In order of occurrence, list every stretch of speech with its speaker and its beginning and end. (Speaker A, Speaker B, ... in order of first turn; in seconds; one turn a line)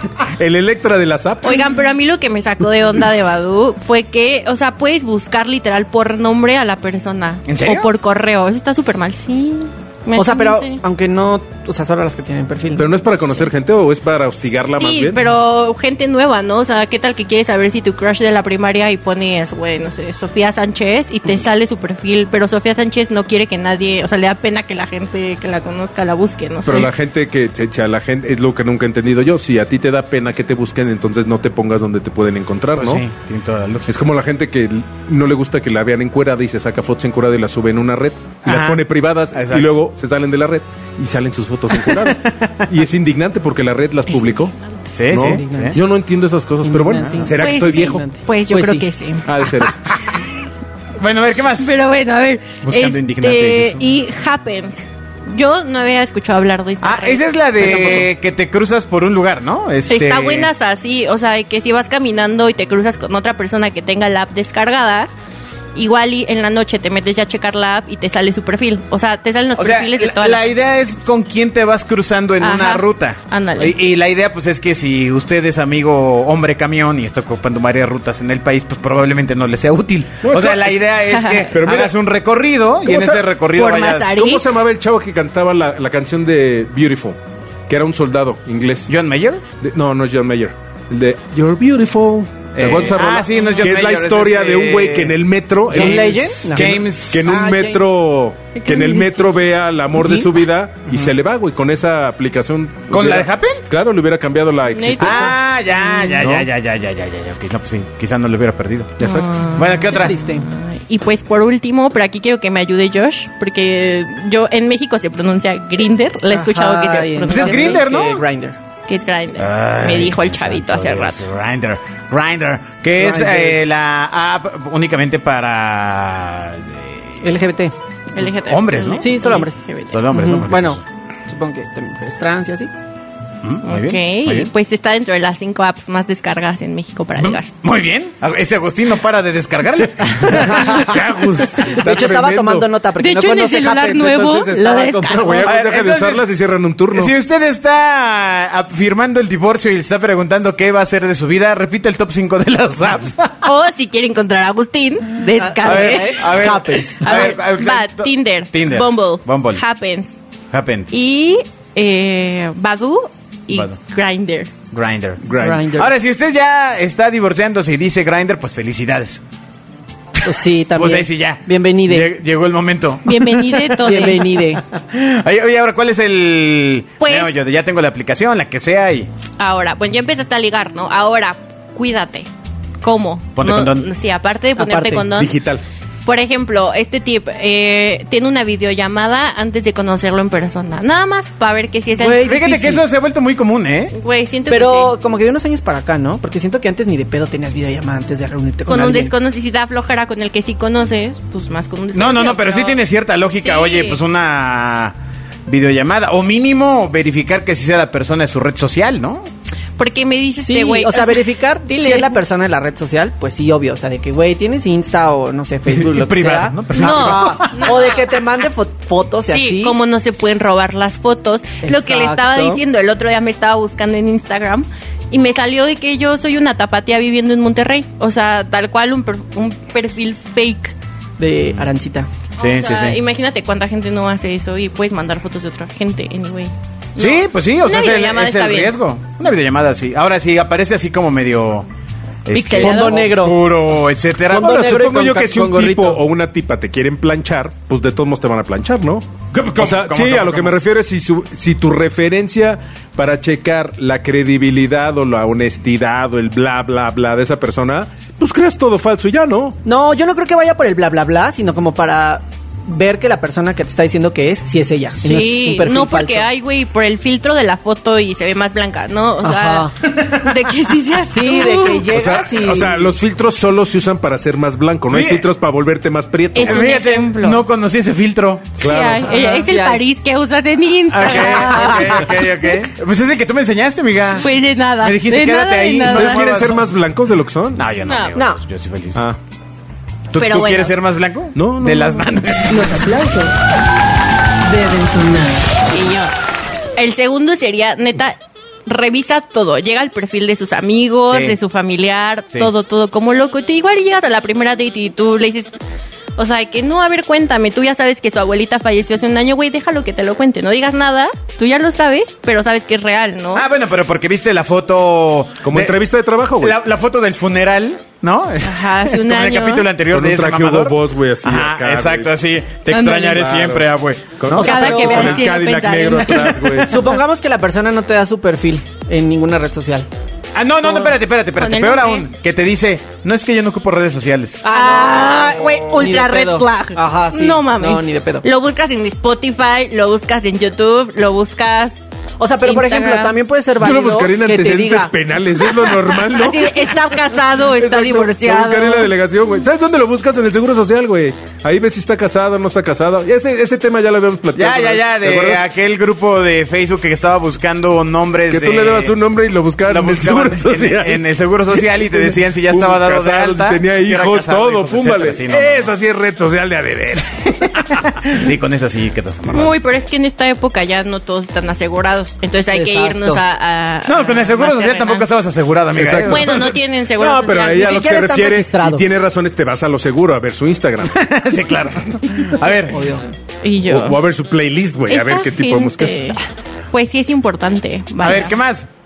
Speaker A: 0.3-1.6
Speaker B: 1.4-10.8
Speaker C: 7.5-7.9
Speaker D: 10.1-12.9
Speaker A: 12.8-15.2
Speaker B: 14.8-26.9
Speaker A: 26.6-33.0
Speaker C: 32.7-34.0
Speaker A: 33.9-44.5
Speaker C: 38.4-38.8
Speaker C: 39.3-39.7
Speaker C: 41.7-42.6
Speaker C: 44.9-45.8
Speaker A: 45.1-48.0
Speaker D: 45.1-45.8
Speaker D: 46.6-48.9
Speaker C: 47.0-47.2
Speaker B: 47.4-49.3
Speaker A: 49.2-49.8
Speaker C: 49.7-50.2
Speaker C: 51.0-51.7
Speaker B: 51.6-57.3
Speaker C: 52.6-53.8
Speaker C: 56.8-60.5
Speaker B: 59.9-65.1
Speaker B: 65.7-70.6
Speaker C: 69.6-84.2
Speaker B: 72.4-73.8
Speaker A: 80.2-80.8
Speaker B: 81.1-81.5
Speaker A: 81.5-81.9
Speaker A: 82.8-83.2
Speaker B: 83.5-84.5
Speaker A: 84.1-87.2
Speaker A: 87.7-88.9
Speaker C: 88.9-89.4
Speaker A: 89.6-105.4
Speaker C: 92.5-95.2
Speaker B: 93.4-93.6
Speaker D: 95.7-96.7
Speaker C: 95.7-97.3
Speaker D: 97.2-97.8
Speaker D: 98.7-99.1
Speaker D: 100.0-100.3
Speaker C: 102.9-103.6
Speaker B: 104.7-106.2
Speaker C: 105.0-109.0
Speaker A: 106.2-106.5
Speaker A: 109.0-109.4
Speaker B: 109.0-117.9
Speaker C: 109.5-110.1
Speaker D: 109.9-110.5
Speaker D: 116.3-118.6
Speaker C: 117.2-118.2
Speaker B: 118.9-121.2
Speaker C: 119.4-127.2
Speaker D: 123.0-123.6
Speaker D: 127.2-127.7
Speaker B: 128.1-130.0
Speaker C: 128.3-129.1
Speaker D: 129.0-132.7
Speaker C: 129.9-130.8
Speaker C: 133.4-134.5
Speaker B: 133.6-137.4
Speaker C: 137.2-141.0
Speaker D: 140.4-140.8
Speaker A: 140.4-142.7
Speaker D: 141.6-144.5
Speaker B: 143.0-145.5
Speaker A: 143.9-147.1
Speaker C: 145.4-146.3
Speaker C: 146.9-153.4
Speaker B: 153.4-160.2
Speaker D: 155.4-157.0
Speaker C: 155.6-159.6
Speaker C: 160.5-160.9
Speaker B: 160.9-164.5
Speaker C: 163.5-163.8
Speaker C: 164.7-169.2
Speaker A: 165.2-165.6
Speaker D: 165.3-165.9
Speaker C: 170.2-179.1
Speaker D: 170.2-172.1
Speaker B: 173.0-174.3
Speaker D: 173.8-174.6
Speaker B: 177.0-177.3
Speaker B: 179.4-182.3
Speaker B: 182.8-185.3
Speaker C: 183.4-183.9
Speaker D: 184.6-185.1
Speaker A: 185.1-185.6
Speaker B: 186.1-192.3
Speaker D: 192.0-192.8
Speaker C: 192.2-193.9
Speaker B: 193.9-194.9
Speaker D: 194.5-199.1
Speaker B: 198.7-204.0
Speaker C: 201.9-204.9
Speaker C: 205.5-209.2
Speaker B: 209.8-212.2
Speaker D: 210.4-219.8
Speaker C: 215.7-217.8
Speaker B: 216.7-218.1
Speaker B: 219.3-230.7
Speaker D: 221.6-222.6
Speaker D: 231.2-232.1
Speaker B: 232.4-238.7
Speaker C: 232.4-233.0
Speaker C: 237.0-241.7
Speaker C: 242.3-245.1
Speaker B: 242.3-243.0
Speaker D: 242.6-243.5
Speaker D: 244.3-246.0
Speaker A: 244.3-259.6
Speaker C: 249.3-250.5
Speaker D: 259.6-266.3
Speaker B: 265.0-271.9
Speaker D: 269.2-269.7
Speaker D: 271.1-272.9
Speaker A: 271.9-276.6
Speaker C: 274.9-275.2
Speaker B: 276.3-277.4
Speaker C: 276.4-278.6
Speaker B: 278.6-282.2
Speaker A: 278.6-279.1
Speaker D: 279.0-279.8
Speaker C: 280.9-286.6
Speaker D: 281.1-282.0
Speaker B: 284.2-286.2
Speaker A: 285.9-287.6
Speaker C: 287.6-289.0
Speaker B: 287.8-288.1
Speaker D: 288.1-288.4
Speaker C: 290.1-292.6
Speaker B: 290.1-290.8
Speaker A: 291.3-292.1
Speaker E: 292.5-293.4
Speaker E: 294.4-295.5
Speaker B: 295.7-296.1
Speaker B: 296.8-305.6
Speaker C: 301.1-301.4
Speaker B: 306.2-313.4
Speaker C: 313.3-315.8
Speaker A: 315.4-316.6
Speaker C: 316.4-324.4
Speaker B: 318.4-319.6
Speaker A: 319.9-322.1
Speaker B: 322.7-323.2
Speaker A: 323.1-323.6
Speaker A: 324.2-326.9
Speaker D: 324.3-325.3
Speaker B: 324.4-326.6
Speaker D: 326.6-329.9
Speaker C: 330.3-334.4
Speaker B: 331.4-332.1
Speaker D: 334.4-338.2
Speaker B: 334.5-341.9
Speaker D: 342.2-344.9
Speaker B: 342.4-343.1
Speaker A: 343.6-346.7
Speaker B: 346.1-348.9
Speaker A: 347.5-355.4
Speaker C: 354.3-359.0
Speaker A: 358.3-361.0
Speaker C: 359.6-365.7
Speaker A: 361.6-367.8
Speaker C: 367.8-369.5
Speaker B: 369.3-375.1
Speaker D: 372.5-373.2
Speaker C: 373.9-376.5
Speaker A: 375.8-380.9
Speaker B: 376.0-377.8
Speaker D: 377.5-378.9
Speaker C: 380.8-382.9
Speaker D: 382.7-383.1
Speaker B: 383.4-384.0
Speaker A: 383.6-386.2
Speaker B: 384.9-386.2
Speaker B: 386.7-388.4
Speaker C: 388.0-388.7